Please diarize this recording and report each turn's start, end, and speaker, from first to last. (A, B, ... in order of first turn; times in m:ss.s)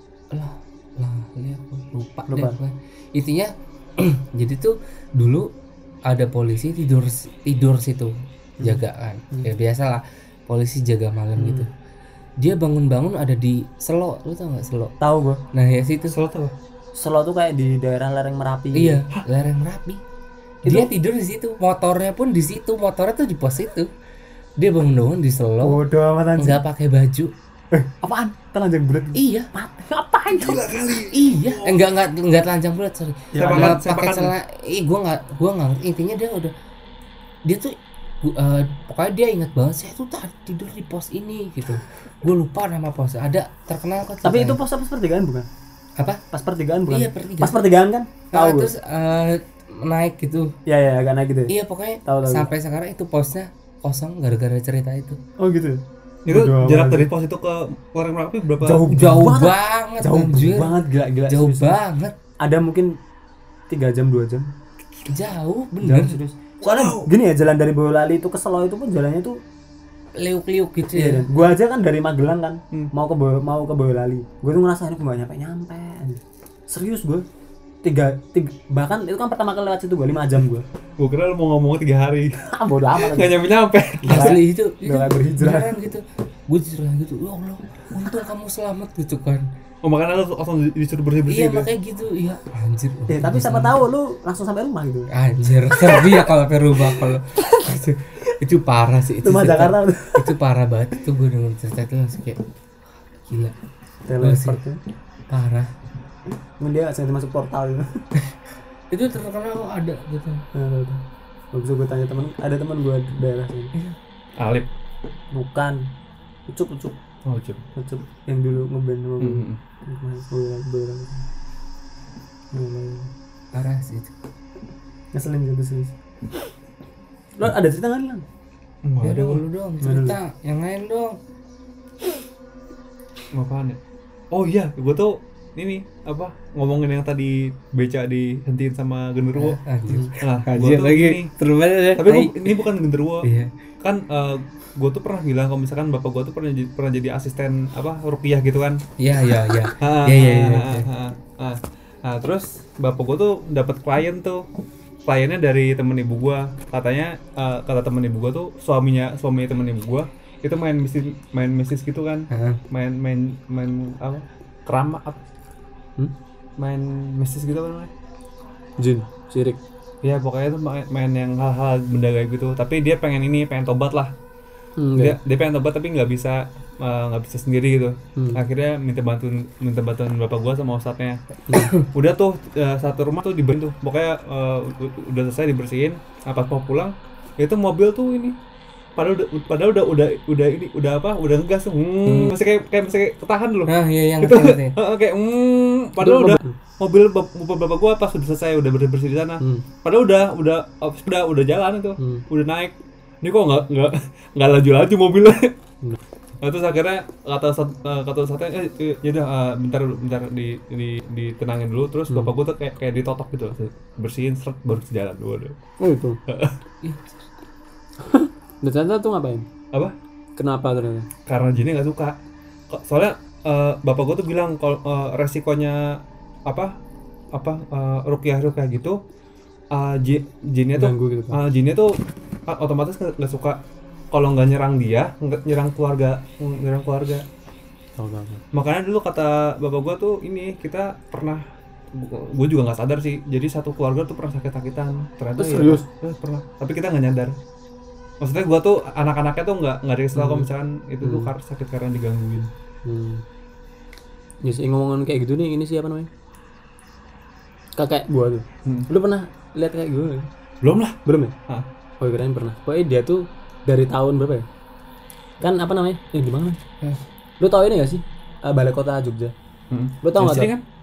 0:00.3-0:05.5 A
0:02.3-0:02.6 B
0:06.0-0:11.7 A
0:11.4-0:11.7 B
0:12.4-0:14.9 A
0:15.0-0:15.4 B
0:15.5-0:16.2 A
0:16.1-0:16.5 C
0:16.9-0:19.0 B
0:18.7-0:20.0 A
0:20.6-0:20.9 B
0:20.6-0:23.9 A
0:24.6-0:25.8 A
0:25.6-0:26.6 B
0:26.4-0:27.3 A
0:27.7-0:31.0 B
0:29.1-0:29.5 A
0:30.3-0:31.8 C
0:31.1-0:36.5 A
0:33.3-0:33.8 B
0:33.4-0:34.3 C
0:37.4-0:44.6 A
0:44.2-0:45.5 B
0:46.3-0:48.7 B
0:46.9-0:47.6 A
0:48.3-0:50.5 A
0:50.6-0:51.5 B
0:51.5-0:55.2 A
0:52.0-0:52.5 B
0:55.4-0:57.1 B
0:56.3-0:58.8 C
0:58.6-1:01.8 B
0:58.9-1:02.2 A
1:02.4-1:02.9 B
1:03.7-1:04.5 B
1:05.1-1:06.2 A
1:05.8-1:09.4 B
1:06.6-1:07.1 C
1:10.2-1:11.3 A
1:10.9-1:17.3 B
1:17.8-1:20.6 B
1:21.0-1:22.4 C
1:22.4-1:23.4 B
1:22.9-1:24.4 C
1:24.0-1:25.8 B
1:24.1-1:29.5 A
1:29.8-1:31.7 C
1:31.3-1:33.8 A
1:33.1-1:35.1 B
1:35.1-1:42.4 A
1:35.7-1:36.3 B
1:39.2-1:40.3 B
1:43.3-1:43.6 A
1:44.0-1:44.8 B
1:44.2-1:44.6 A
1:45.3-1:45.7 A
1:46.6-1:48.0 B
1:48.9-1:50.4 A
1:50.5-1:53.7 B
1:54.4-1:54.7 C
1:55.3-1:55.8 B
1:56.5-1:57.0 B
1:57.2-1:57.6 C
1:57.8-2:01.3 B
1:59.2-1:59.6 C
2:02.5-2:03.1 B
2:03.5-2:04.2 A
2:05.1-2:06.4 B
2:07.4-2:08.2 B
2:08.8-2:09.4 C
2:09.0-2:11.2 A
2:09.8-2:10.2 B
2:13.3-2:13.8 C
2:14.3-2:19.6 C
2:19.3-2:22.6 A
2:20.2-2:21.3 C
2:21.9-2:23.3 C
2:23.2-2:23.5 A
2:23.8-2:28.8 C
2:29.0-2:30.9 A
2:29.8-2:34.4 C
2:35.0-2:45.2 C
2:42.3-2:42.6 A
2:46.6-2:47.9 C
2:48.8-2:49.6 B
2:50.0-2:54.1 C
2:54.8-2:55.2 B
2:55.0-3:01.2 C
3:01.8-3:08.4 C
3:09.0-3:25.6 C
3:13.7-3:14.8 A
3:16.0-3:16.6 B
3:19.4-3:19.6 B
3:22.0-3:22.2 B
3:26.4-3:35.6 C
3:35.8-3:36.2 B
3:36.3-3:36.6 C
3:36.8-3:37.2 A
3:38.0-3:39.5 B
3:40.4-3:41.1 B
3:41.3-3:42.2 C
3:42.7-3:46.7 C
3:47.3-3:49.0 C
3:49.7-3:53.6 C
3:50.7-3:51.4 B
3:54.1-3:57.3 C
3:58.0-3:58.4 B
3:58.5-4:07.4 C
4:05.4-4:05.8 B
4:08.2-4:12.5 C
4:10.1-4:10.5 B
4:11.0-4:11.3 B
4:12.8-4:13.2 B
4:14.4-4:16.1 B
4:17.8-4:20.3 B
4:18.6-4:18.9 C
4:20.6-4:21.6 C
4:21.0-4:21.3 B
4:22.0-4:24.4 B
4:25.4-4:26.6 B
4:27.4-4:29.3 B
4:29.7-4:30.6 C
4:30.0-4:30.5 B